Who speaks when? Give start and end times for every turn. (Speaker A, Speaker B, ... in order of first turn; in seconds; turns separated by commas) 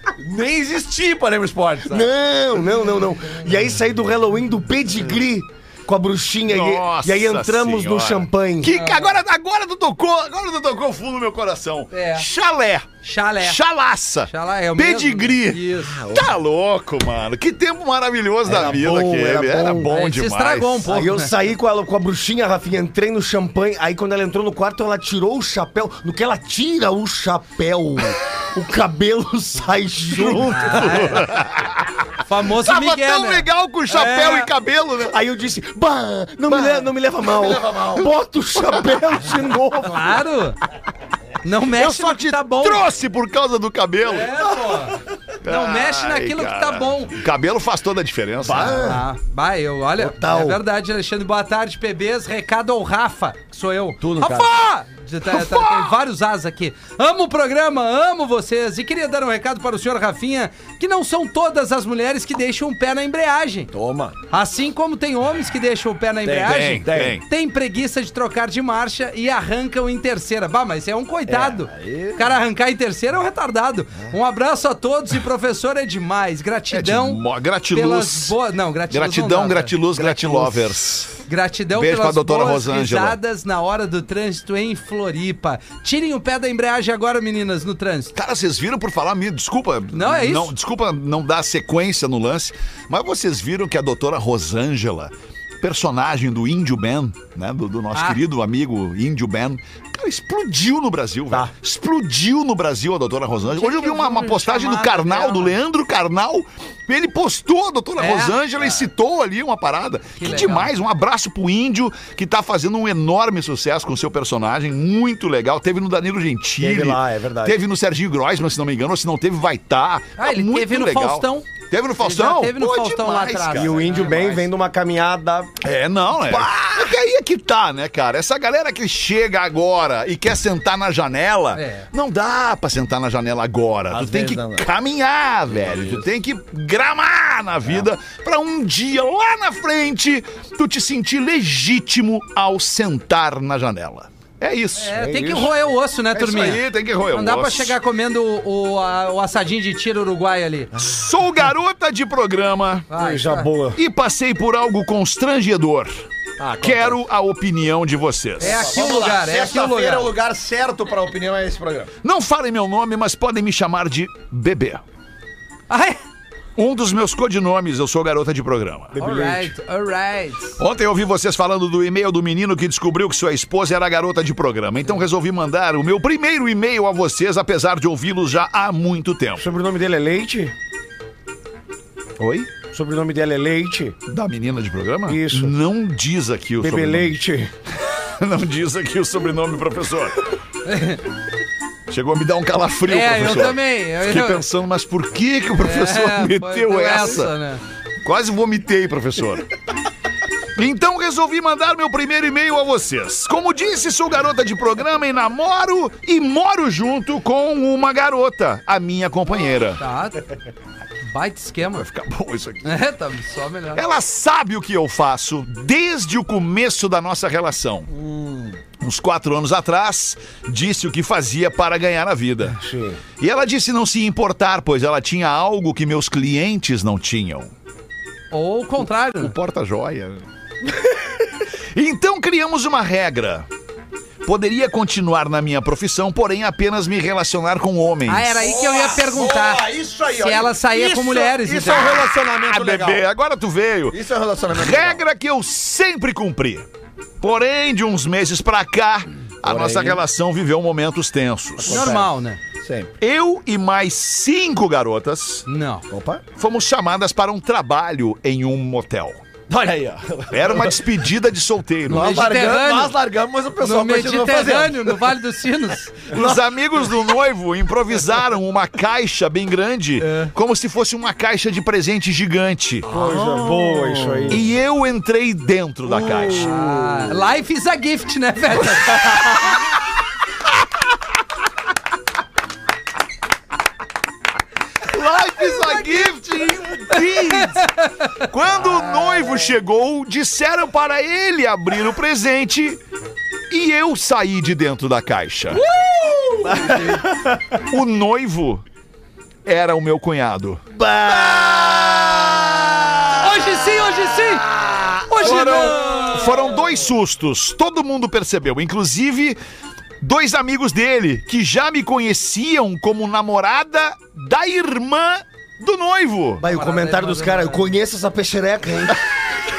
Speaker A: 0.2-2.1, Speaker B: 1.9-8.7, Speaker C: 6.5-12.9, Speaker D: 8.7-9.2, Speaker D: 11.9-12.3, Speaker D: 13.0-13.6, Speaker C: 13.4-20.9, Speaker D: 14.3-16.0, Speaker B: 18.4-19.9, Speaker D: 19.9-21.3, Speaker B: 20.8-31.1, Speaker C: 30.0-31.8, Speaker D: 30.5-31.3, Speaker D: 32.2-34.5, Speaker C: 32.6-35.2, Speaker B: 35.1-40.2, Speaker C: 36.5-36.8, Speaker A: 37.3-38.1, Speaker D: 39.8-40.6, Speaker D: 41.4-42.8, Speaker C: 41.7-44.7, Speaker D: 44.0-47.2, Speaker C: 45.4-49.0, Speaker B: 48.4-49.0, Speaker D: 48.6-63.7, Speaker B: 50.0-50.6, Speaker A: 54.0-54.5, Speaker C: 55.3-55.9, Speaker A: 63.7-64.2, Speaker D: 64.3-77.2, Speaker A: 66.2-67.2, Speaker C: 66.4-67.2, Speaker A: 71.3-72.2, Speaker C: 76.7-78.3, Speaker D: 77.7-79.7, Speaker C: 78.9-81.2, Speaker A: 79.9-80.6, Speaker D: 81.2-88.1, Speaker C: 81.7-83.2, Speaker C: 88.1-124.0, Speaker D: 89.9-90.5, Speaker D: 97.9-98.2, Speaker D: 103.5-105.5, Speaker D: 108.0-108.4, Speaker D: 110.2-110.7, Speaker B: 116.6-117.6, Speaker D: 120.2-124.4, Speaker B: 123.5-125.5, Speaker C: 125.6-144.9, Speaker D: 131.5-131.9, Speaker A: 133.9-134.7, Speaker A: 135.5-136.0, Speaker D: 144.8-146.6, Speaker B: 144.9-145.5, Speaker C: 146.1-147.8, Speaker D: 147.1-150.7, Speaker C: 150.7-152.9, Speaker D: 152.9-153.5, Speaker B: 152.9-153.8, Speaker C: 153.8-156.0, Speaker A: 156.4-157.0, Speaker C: 156.6-158.7, Speaker D: 158.4-160.1, Speaker A: 158.4-161.9, Speaker C: 162.0-164.8, Speaker D: 165.7-166.0, Speaker C: 166.6-168.9, Speaker B: 168.9-169.5, Speaker D: 169.0-170.6, Speaker C: 170.6-179.4, Speaker B: 179.4-180.5, Speaker C: 182.2-182.5, Speaker B: 182.7-183.9, Speaker C: 184.1-187.2, Speaker B: 185.1-185.6, Speaker B: 186.6-187.5, Speaker C: 188.2-190.2, Speaker D: 190.7-191.0, Speaker C: 191.9-197.3, Speaker D: 192.9-194.4, Speaker D: 195.6-197.6, Speaker C: 198.0-199.4, Speaker C: 200.6-209.8, Speaker D: 209.8-210.2, Speaker D: 211.0-211.8, Speaker C: 211.7-212.8, Speaker D: 212.6-213.8, Speaker C: 213.7-217.9, Speaker A: 217.9-218.6, Speaker C: 218.8-222.6, Speaker B: 222.6-223.0, Speaker C: 223.2-227.5, Speaker D: 228.3-229.3, Speaker C: 229.2-233.5, Speaker C: 234.2-238.3, Speaker D: 238.1-242.1, Speaker A: 238.3-243.0, Speaker C: 242.4-246.7, Speaker A: 243.9-245.0, Speaker C: 247.2-251.9, Speaker A: 249.4-250.0, Speaker A: 251.6-252.1, Speaker D: 251.7-252.4, Speaker A: 252.6-252.9, Speaker C: 253.0-255.4, Speaker D: 255.5-255.9, Speaker A: 255.9-256.2, Speaker C: 256.4-259.2, Speaker A: 259.5-260.8, Speaker C: 260.3-262.1, Speaker A: 261.9-265.0, Speaker D: 261.9-262.9, Speaker D: 263.6-266.0, Speaker A: 266.1-266.5, Speaker C: 266.1-272.9, Speaker D: 270.0-270.3, Speaker A: 272.8-274.4, Speaker B: 272.9-274.5, Speaker C: 274.3-276.6, Speaker A: 275.8-277.1, Speaker D: 276.3-279.6, Speaker C: 284.8-287.7, Speaker D: 285.5-286.1, Speaker D: 286.9-288.1, Speaker C: 288.2-292.8, Speaker D: 288.9-289.2, Speaker C: 293.5-295.6, Speaker A: 295.5-297.0, Speaker B: 296.4-297.6, Speaker C: 297.7-298.6, Speaker C: 299.4-300.6, Speaker B: 300.7-302.5, Speaker A: 301.1-302.8, Speaker D: 303.1-304.4, Speaker A: 304.5-305.7, Speaker D: 305.1-306.4, Speaker C: 305.2-309.4, Speaker C: 310.0-316.4, Speaker B: 316.4-319.0, Speaker D: 316.5-317.7